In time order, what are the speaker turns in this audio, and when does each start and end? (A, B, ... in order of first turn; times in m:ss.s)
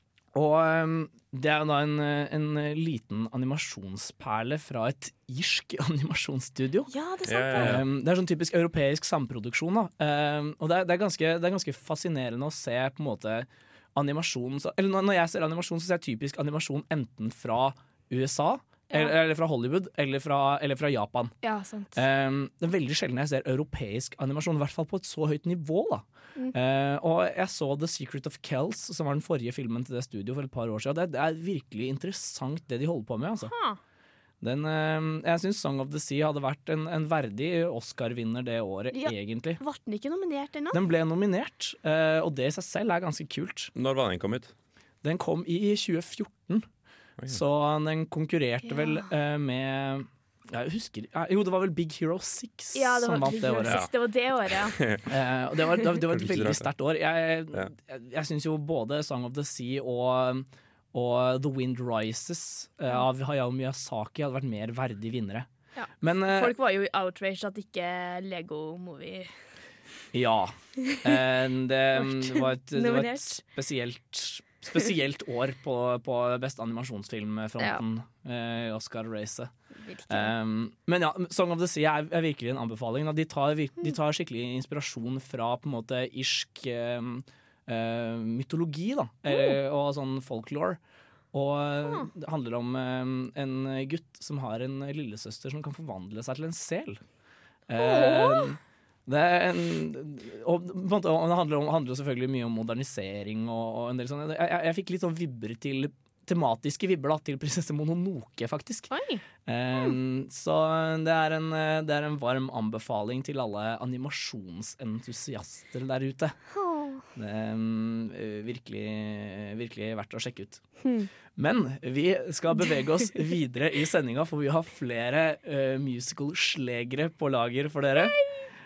0:00.3-0:06.9 A
0:06.9-0:07.8 B
0:07.3-0:07.8 C
0:07.6-0:21.3 A
0:21.4-0:22.0 B
0:22.0-0:33.5 A
0:33.4-0:33.8 B
0:34.4-0:39.6 A
0:38.9-0:40.8 B
0:40.7-0:43.7 A
0:43.8-0:44.5 C
0:45.0-0:46.7 A
0:47.3-0:53.8 A
0:48.6-0:49.1 B
0:52.8-0:54.8 B
0:54.8-0:55.0 C
0:55.1-1:05.5 A
0:56.1-0:56.6 C
1:05.8-1:09.3 B
1:06.0-1:06.6 A
1:10.1-1:19.5 A
1:12.0-1:13.4 B
1:19.8-1:20.3 B
1:20.1-1:30.8 A
1:29.3-1:29.6 B
1:31.3-1:37.0 A
1:37.7-1:48.9 A
1:37.8-1:38.5 B
1:48.9-1:49.2 B
1:49.4-1:56.4 A
1:56.5-1:57.0 B
1:57.1-2:00.6 A
2:00.8-2:01.1 B
2:01.4-2:08.2 A
2:08.0-2:08.4 B